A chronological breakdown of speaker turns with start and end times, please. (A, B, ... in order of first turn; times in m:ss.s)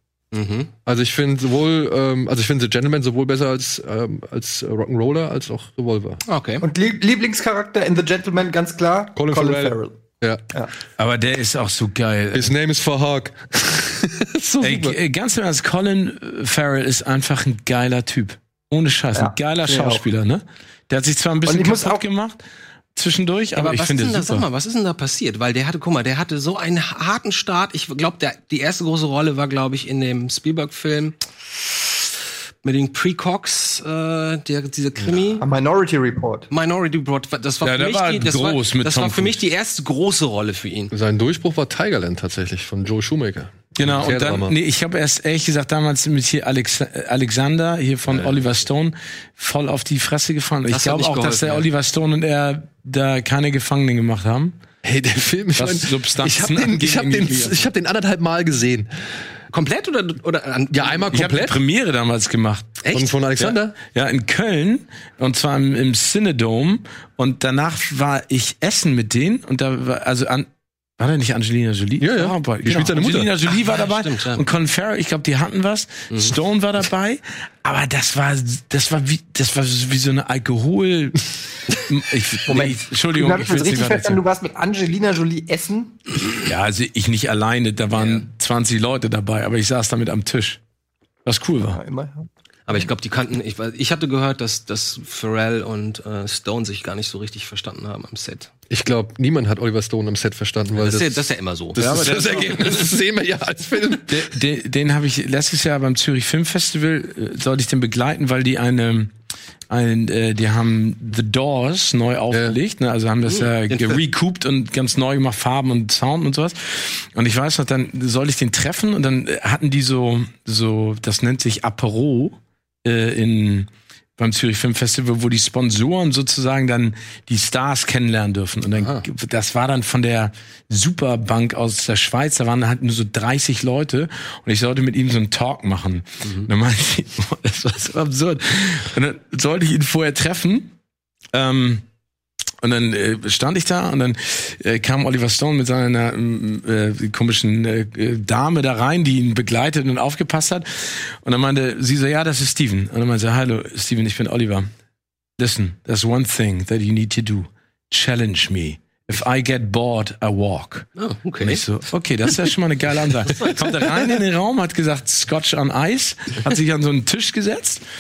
0:00.3-0:00.7 A
0:00.9-0:06.2 B
0:06.3-0:06.6 A
0:06.6-0:10.0 C
0:09.2-0:10.4 B
0:11.0-0:12.5 D
0:12.3-0:15.0 B
0:14.6-0:22.4 D
0:19.1-0:20.0 C
0:21.4-0:22.0 C
0:23.0-0:24.4 D
0:23.6-0:31.9 A
0:32.6-0:35.4 A
0:35.4-0:36.5 C
0:36.5-0:40.9 A
0:37.6-0:39.4 D
0:40.9-0:44.6 B
0:43.8-0:54.6 D
0:50.7-0:51.7 A
0:54.8-0:58.9 B
0:55.6-0:57.6 D
0:59.5-1:01.2 A
1:00.7-1:01.6 B
1:01.1-1:02.8 D
1:02.8-1:03.1 A
1:02.9-1:03.8 B
1:03.4-1:10.5 D
1:11.0-1:24.2 D
1:12.0-1:13.3 B
1:13.5-1:14.4 A
1:16.1-1:16.4 A
1:22.5-1:26.0 C
1:26.4-1:30.6 D
1:28.0-1:28.3 A
1:31.2-1:31.8 D
1:31.7-1:32.3 C
1:32.7-1:38.5 A
1:38.7-1:41.2 B
1:40.8-1:42.6 A
1:41.7-1:44.3 B
1:41.8-1:42.8 D
1:44.1-1:49.1 D
1:49.7-2:20.7 D
1:52.3-1:52.6 B
1:53.3-1:54.0 A
2:21.3-2:21.8 D
2:22.6-2:34.7 D
2:35.4-2:40.9 D
2:41.0-2:41.6 A
2:41.4-2:47.8 D
2:43.3-2:43.7 A